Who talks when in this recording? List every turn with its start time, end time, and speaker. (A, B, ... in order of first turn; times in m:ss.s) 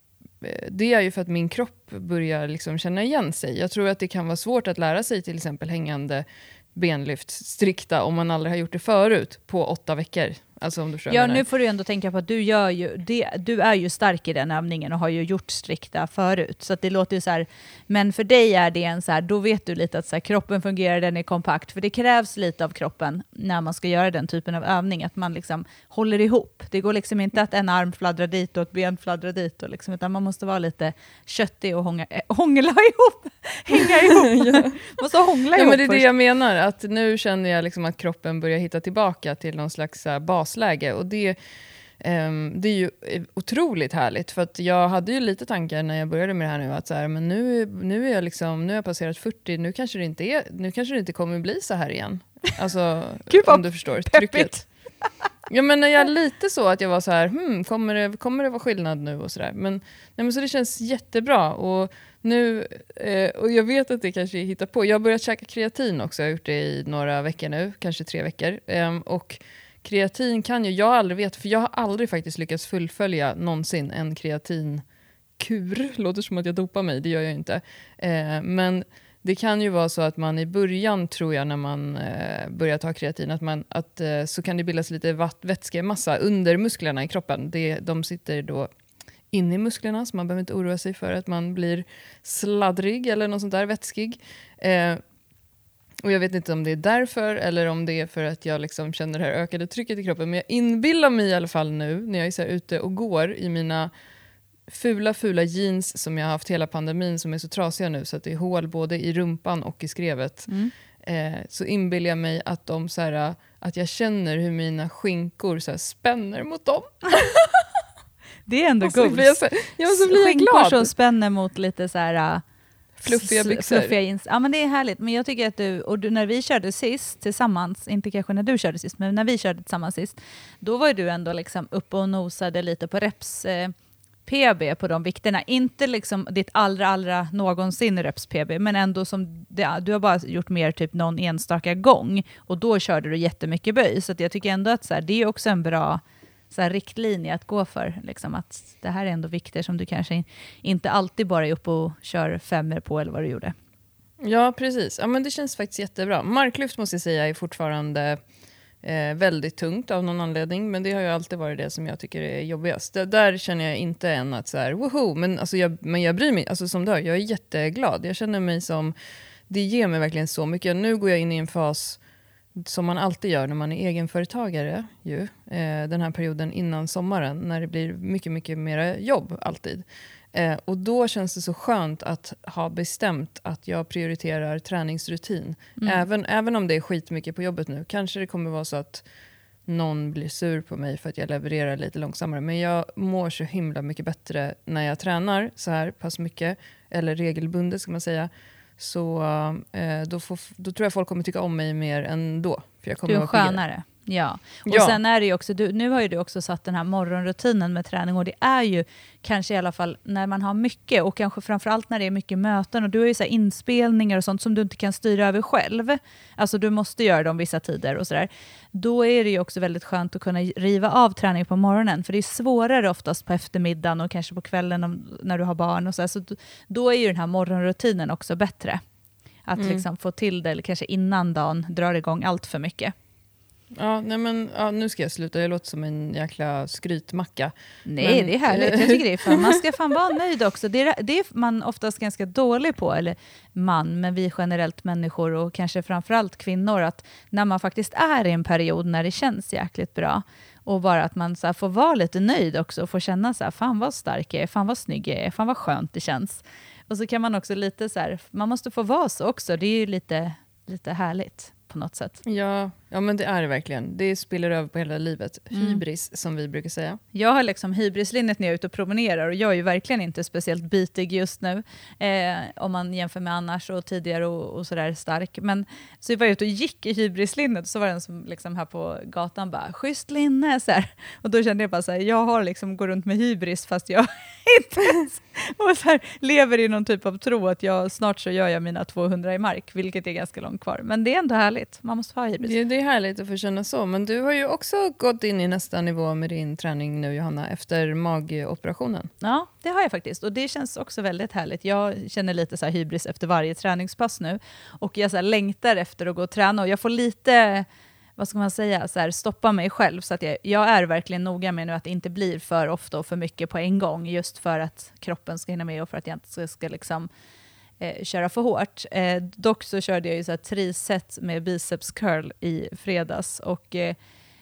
0:00.4-0:11.4 A
0:11.1-0:36.1 B
0:33.8-0:35.0 A
0:35.6-0:41.4 A
0:42.0-0:54.6 A
0:53.3-0:54.7 B
0:55.5-1:14.8 A
1:15.4-1:28.7 A
1:29.3-1:35.0 A
1:36.0-1:43.9 A
1:44.7-1:50.5 A
1:51.0-1:57.6 A
1:58.5-2:02.4 B
1:58.8-2:00.9 A
2:03.0-2:03.9 A
2:03.1-2:13.7 B
2:14.3-2:33.5 B
2:34.2-2:38.2 A
2:38.8-2:48.9 A
2:49.5-2:52.0 A
2:52.6-3:09.0 A
3:05.8-3:06.0 B
3:09.7-3:23.6 A
3:23.1-3:48.8 B
3:24.7-3:25.0 A
3:49.5-3:52.9 B
3:49.6-3:49.8 A
3:53.8-3:59.6 A
3:57.9-4:22.2 B
4:22.2-4:27.0 A
4:25.5-4:25.8 B
4:27.1-4:52.5 B
4:52.4-4:59.1 A
4:59.2-5:07.7 B
5:08.2-5:17.1 B
5:17.8-5:24.0 B